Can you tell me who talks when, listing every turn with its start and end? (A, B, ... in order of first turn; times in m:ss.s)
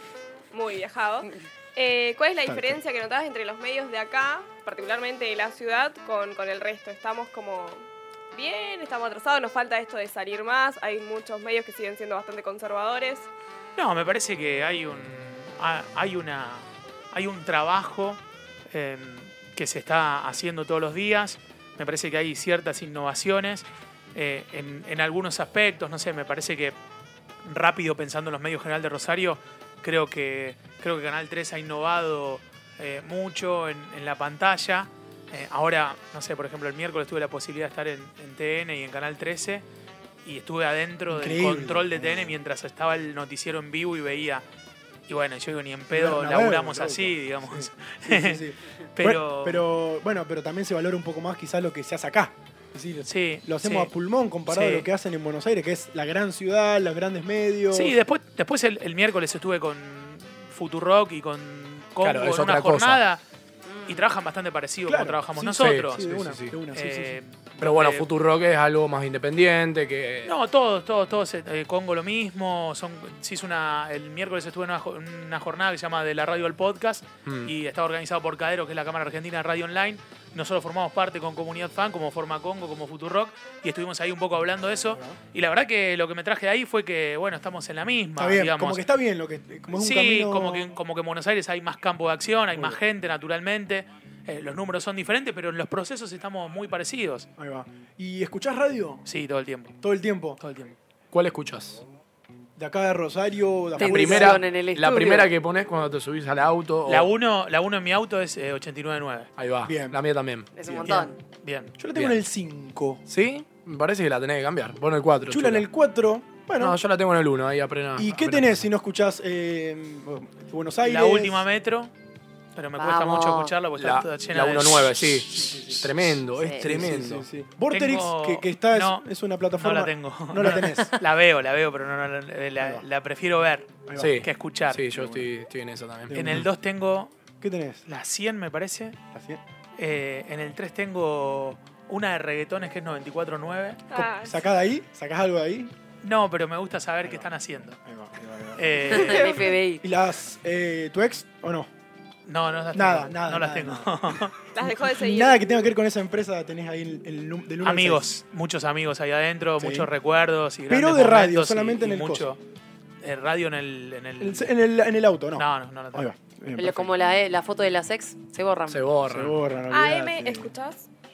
0:00.5-0:13.3 A
0:02.4-0:02.8 B
0:13.8-0:26.8 C
0:27.4-0:39.6 C
0:40.2-0:44.4 C
0:41.1-0:42.4 B
0:45.1-0:48.4 C
0:45.9-0:58.0 B
0:49.0-0:49.6 C
0:53.1-0:53.9 C
0:54.5-0:54.9 C
0:57.7-1:03.2 C
1:02.0-1:03.0 D
1:03.7-1:04.0 E
1:03.9-1:06.0 C
1:04.9-1:07.2 B
1:05.4-1:06.6 D
1:06.7-1:08.1 C
1:07.6-1:10.4 D
1:10.2-1:28.8 C
1:17.2-1:17.5 D
1:24.9-1:25.2 B
1:28.2-1:30.7 B
1:29.7-1:37.3 C
1:32.5-1:32.8 B
1:37.4-1:39.0 B
1:39.1-1:39.8 C
1:39.8-1:40.4 B
1:40.4-1:40.8 C
1:41.1-1:41.8 D
1:42.6-1:44.4 B
1:43.8-1:45.3 E
1:43.8-1:47.1 D
1:46.9-1:49.3 C
1:49.4-1:50.5 D
1:49.6-1:50.0 B
1:50.6-1:51.2 E
1:50.6-1:51.1 B
1:50.9-1:51.8 C
1:51.8-1:53.0 B
1:53.1-1:55.7 D
1:55.3-1:56.8 B
1:56.6-1:58.6 D
1:58.0-2:01.4 B
2:00.8-2:01.9 C
2:02.6-2:05.0 C
2:02.8-2:03.5 E
2:03.8-2:07.3 D
2:05.3-2:06.0 B
2:06.4-2:06.8 E
2:06.6-2:11.0 B
2:07.7-2:09.0 C
2:09.6-2:14.8 C
2:12.6-2:12.8 B
2:13.9-2:14.2 B
2:14.0-2:16.5 D
2:14.9-2:15.3 B
2:16.1-2:16.5 B
2:16.1-2:17.1 C
2:17.4-2:17.8 B
2:17.9-2:19.0 C
2:19.1-2:19.4 B
2:19.8-2:23.8 C
2:23.9-2:24.4 A
2:23.9-2:25.7 B
2:26.0-2:27.8 C
2:27.0-2:27.3 B
2:27.8-2:29.3 B
2:28.6-2:29.3 C
2:28.9-2:29.8 E
2:29.0-2:29.6 A
2:29.8-2:31.7 B
2:32.3-2:34.5 C
2:32.7-2:38.2 B
2:34.5-2:35.4 A
2:37.6-2:42.4 C
2:39.6-2:39.9 B
2:40.7-2:42.3 B
2:43.0-2:44.5 C
2:44.2-2:46.9 B
2:45.4-2:46.1 C
2:46.6-2:48.8 E
2:48.7-2:49.4 D
2:49.1-2:50.5 B
2:49.7-2:50.9 A